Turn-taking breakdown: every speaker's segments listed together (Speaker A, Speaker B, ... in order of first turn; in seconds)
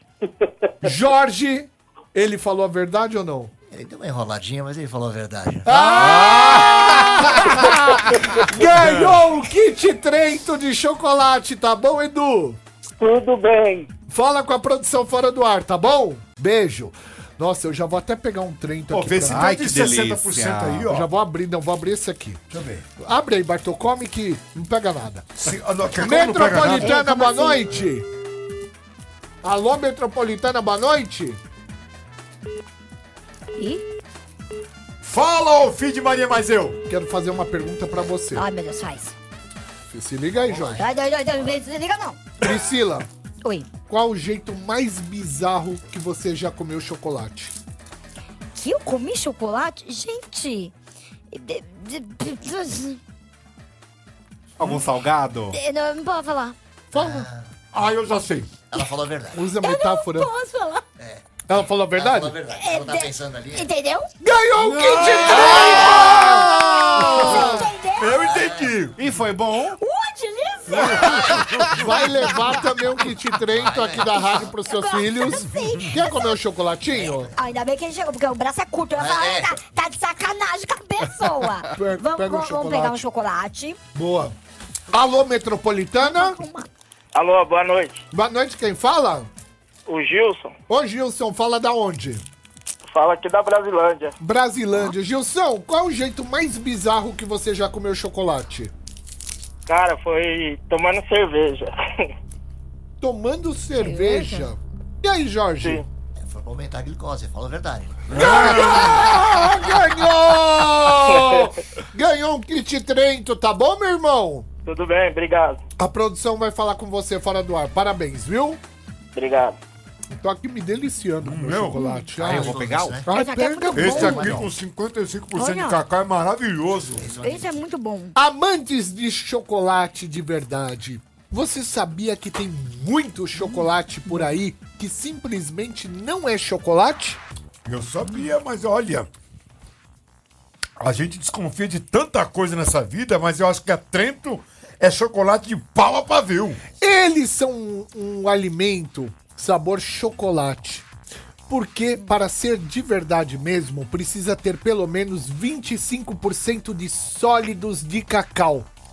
Speaker A: 0.8-3.5, 5.6-12.6, 14.1-19.5, 20.9-22.4, 23.0-28.1, 29.4-31.4, 36.9-38.5, 39.9-40.8, 42.4-43.1, 43.9-47.5, 56.9-57.3, 59.3-60.3, 61.5-62.4, 64.2-67.7, 71.7-77.3, 81.7-83.0, 83.9-84.3, 84.9-86.4, 88.1-89.3, 90.7-92.2, 94.2-98.7, 103.0-105.8, 108.1-114.5, 115.8-118.6, 120.1-124.5, 128.1-137.2, 146.8-150.9, 151.5-158.7
Speaker B: 3.7-5.7, 40.4-40.8, 56.9-57.5, 58.7-59.5, 61.0-61.3, 61.9-63.6, 68.2-68.8, 73.5-74.5, 76.9-77.3, 79.0-79.6, 103.8-104.5, 106.2-108.3, 122.1-123.1, 123.8-124.4, 127.0-127.5
Speaker C: 5.7-6.4, 7.1-7.5, 19.3-20.9, 54.6-55.6, 69.0-69.8, 71.2-71.7, 122.2-123.0
Speaker D: 5.8-6.9, 8.6-9.2, 18.9-21.1, 22.5-22.8, 25.4-27.0, 35.0-36.8, 57.7-58.6, 64.6-68.9, 70.7-71.7, 108.1-109.1, 121.2-121.8, 123.7-127.2, 137.7-139.1, 140.8-146.6
Speaker E: 13.0-13.9, 87.1-88.0, 89.9-90.5, 92.8-94.1, 99.7-102.1, 111.1-111.4, 114.6-115.6, 119.1-119.6
Speaker F: 26.7-27.7, 33.5-33.8, 38.3-39.1, 40.7-42.2, 43.4-43.7, 48.5-50.7, 51.3-53.0, 55.5-56.5, 59.5-60.8, 62.5-64.1, 65.3-68.2, 69.8-71.5, 74.2-76.3, 77.3-83.8, 86.0-86.7, 123.1-124.3, 125.3-125.8, 127.2-128.1